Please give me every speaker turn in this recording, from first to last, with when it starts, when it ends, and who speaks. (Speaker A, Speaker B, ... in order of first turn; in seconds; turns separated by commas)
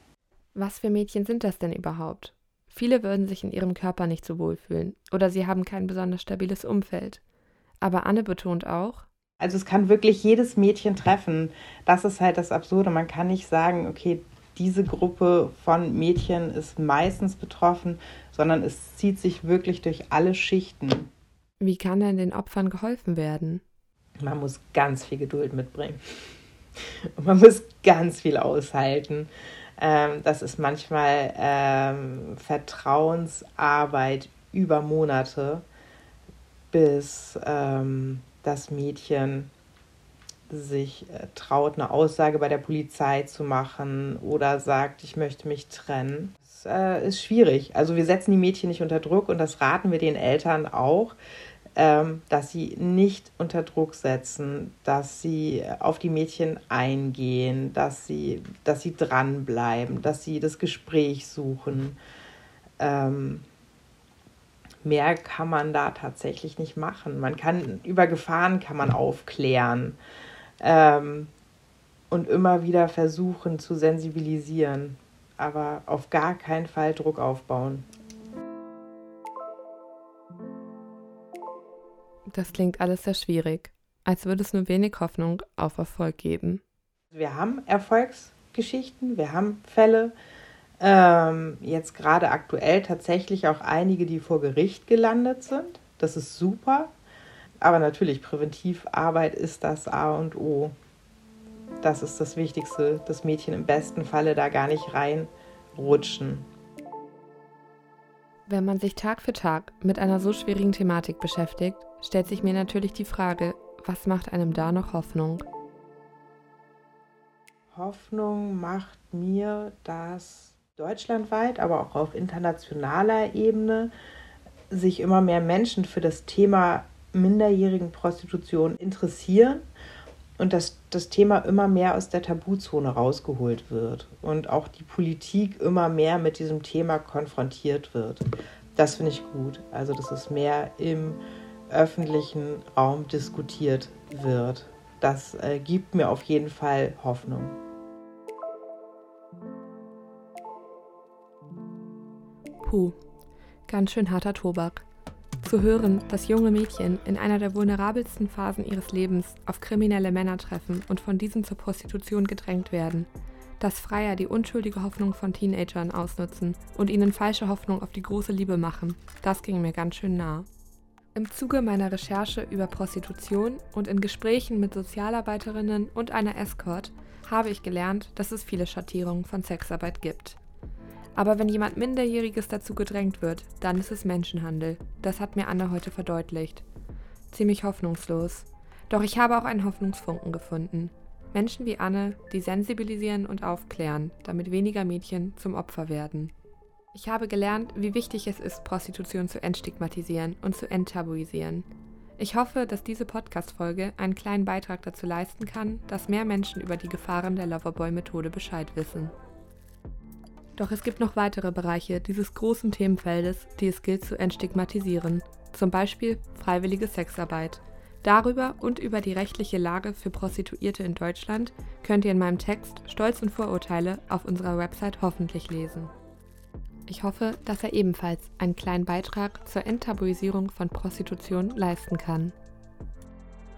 Speaker A: 0.5-7.2, Speaker A: 7.8-9.1, Speaker B: 9.4-21.1, Speaker A: 21.6-23.6, Speaker B: 24.2-26.0, Speaker B: 27.2-35.6, Speaker B: 36.7-39.5, Speaker B: 40.5-51.1, Speaker B: 51.8-62.0, Speaker B: 62.8-63.5, Speaker B: 64.8-70.0, Speaker B: 70.6-71.3, Speaker B: 72.1-77.8, Speaker A: 82.3-86.6, Speaker B: 87.1-90.1, Speaker B: 90.8-96.9, Speaker B: 97.6-100.7, Speaker B: 101.8-106.5, Speaker A: 108.5-115.5, Speaker B: 117.7-123.9, Speaker B: 124.7-129.6, Speaker B: 130.4-147.6, Speaker A: 152.6-153.0, Speaker A: 153.7-154.8, Speaker A: 155.4-163.1, Speaker A: 163.6-170.5, Speaker A: 171.1-180.4, Speaker A: 181.1-186.7, Speaker A: 187.3-196.3, Speaker A: 196.9-201.7, Speaker A: 202.2-209.1, Speaker A: 210.6-225.9, Speaker A: 226.9-232.3